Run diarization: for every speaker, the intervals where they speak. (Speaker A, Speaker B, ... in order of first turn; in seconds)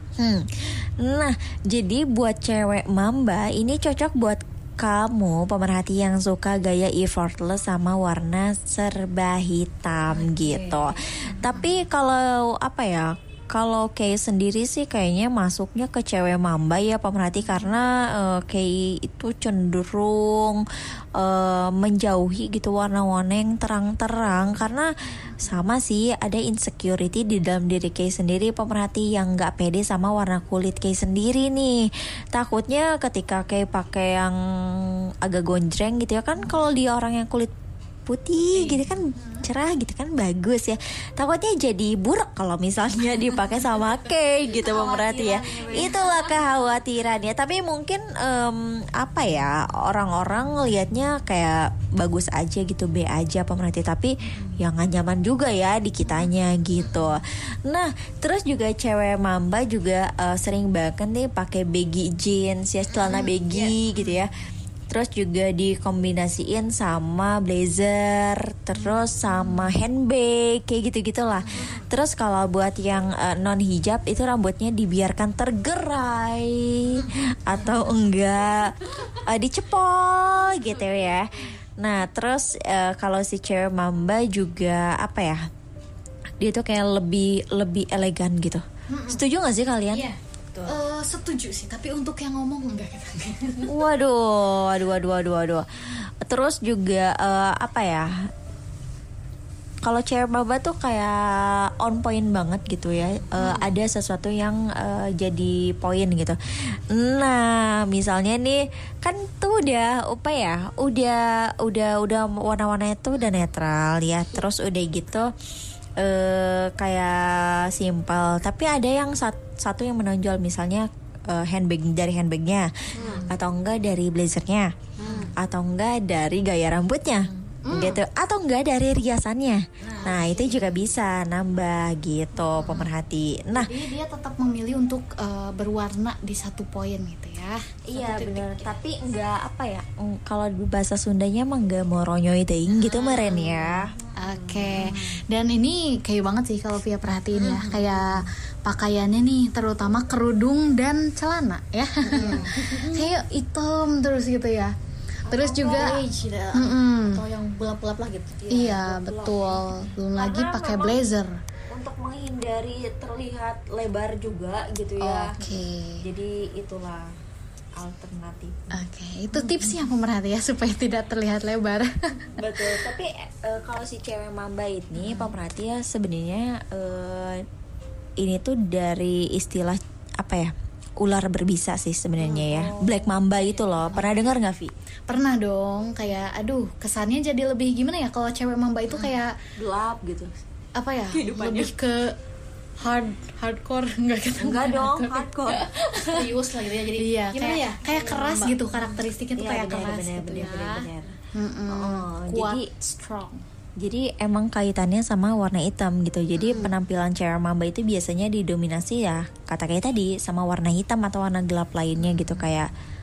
Speaker A: 0.2-20.6, 21.1-37.5, 38.0-64.3, 64.9-85.4, 86.4-90.1, 93.7-98.1, 99.8-115.3, 116.0-124.7, 125.3-133.7, 137.9-143.9, 152.2-152.5, 155.3-155.9, 158.4-161.1, 161.7-165.4, 166.0-167.1, 167.8-168.8, 172.3-177.4, 178.2-184.7, 189.0-190.3, 194.4-195.6, 199.3-201.1, 201.7-202.7, 203.8-212.7
Speaker B: 10.2-10.8, 38.5-38.9, 62.9-63.8, 89.9-90.7, 123.0-123.3, 125.0-125.3, 129.9-130.1, 144.0-145.2, 147.3-148.2, 152.1-153.1, 155.3-158.4, 191.1-191.7, 196.0-198.7, 212.0-212.5
Speaker C: 39.2-39.5, 44.6-46.5, 54.3-54.6, 63.0-63.3, 71.4-71.8, 88.9-89.2, 90.7-93.7, 123.0-123.3, 125.0-125.3, 127.6-128.0, 129.8-130.8, 132.5-132.8, 133.5-138.7, 142.7-154.7, 155.3-156.0, 156.5-157.2, 158.5-161.4, 165.0-166.0, 168.7-172.9, 174.9-175.3, 182.2-184.3, 185.1-189.3, 190.8-192.2, 192.8-196.2, 197.0-203.4